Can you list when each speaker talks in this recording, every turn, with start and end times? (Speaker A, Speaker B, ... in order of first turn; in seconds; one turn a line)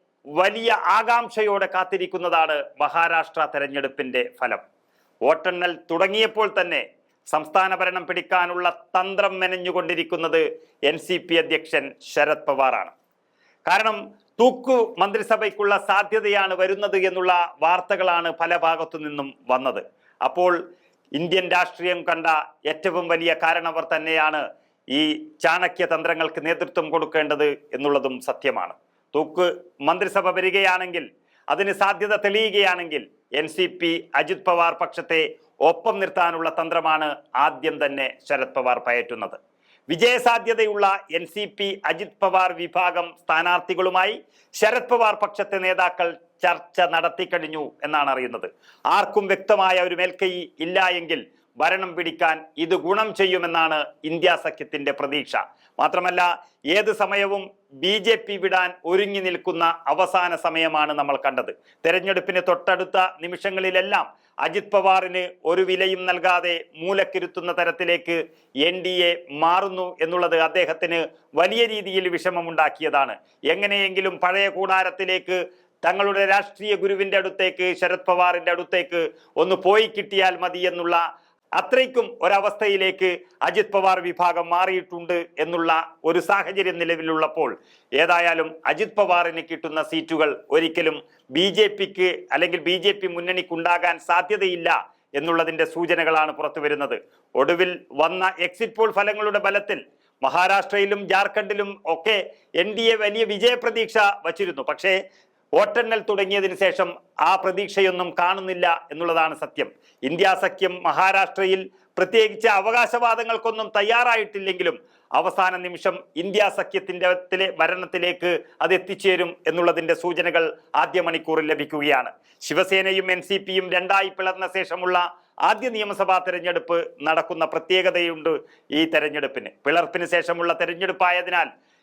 Speaker A: 0.3-4.6
Speaker A: 5.2-12.9
Speaker A: 13.7-20.6
Speaker A: 21.1-39.4
Speaker A: 39.9-81.0
Speaker A: 81.6-104.9
Speaker A: 105.6-131.5